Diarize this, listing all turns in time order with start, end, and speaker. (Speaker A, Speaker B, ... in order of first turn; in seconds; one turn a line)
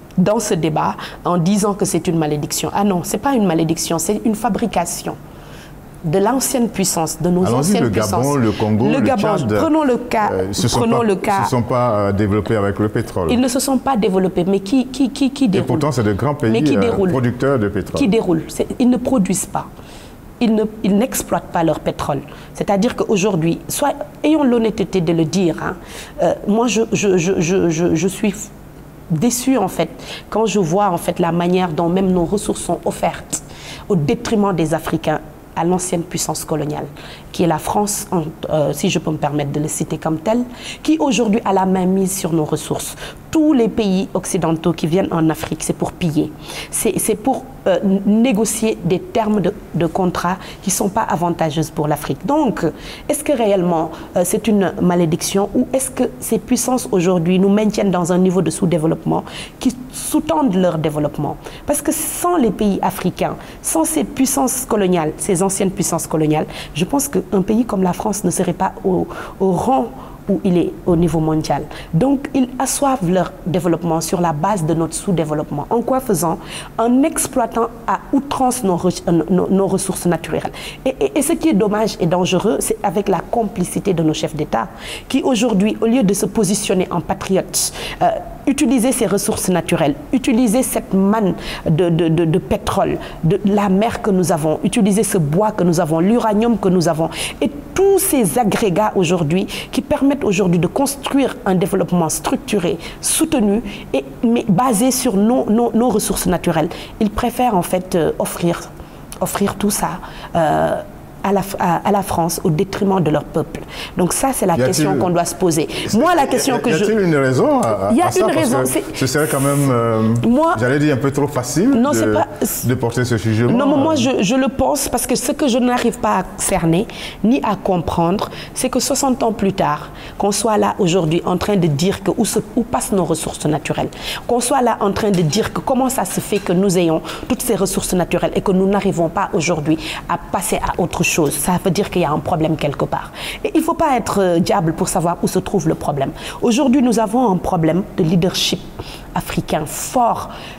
Speaker A: 0.2-5.2
Speaker A: 6.0-11.5
Speaker B: 7.4-9.7
Speaker B: 10.2-13.4
Speaker A: 13.3-15.9
Speaker B: 15.5-18.1
Speaker A: 16.5-17.2
Speaker A: 17.9-19.7
Speaker A: 20.4-28.5
Speaker A: 29.1-108.7
Speaker A: 109.2-116.9
Speaker B: 114.5-115.1
Speaker B: 115.9-124.1
Speaker A: 117.9-119.0
Speaker A: 120.2-120.6
Speaker A: 121.7-122.7
Speaker A: 123.5-148.6
Speaker A: 149.2-150.3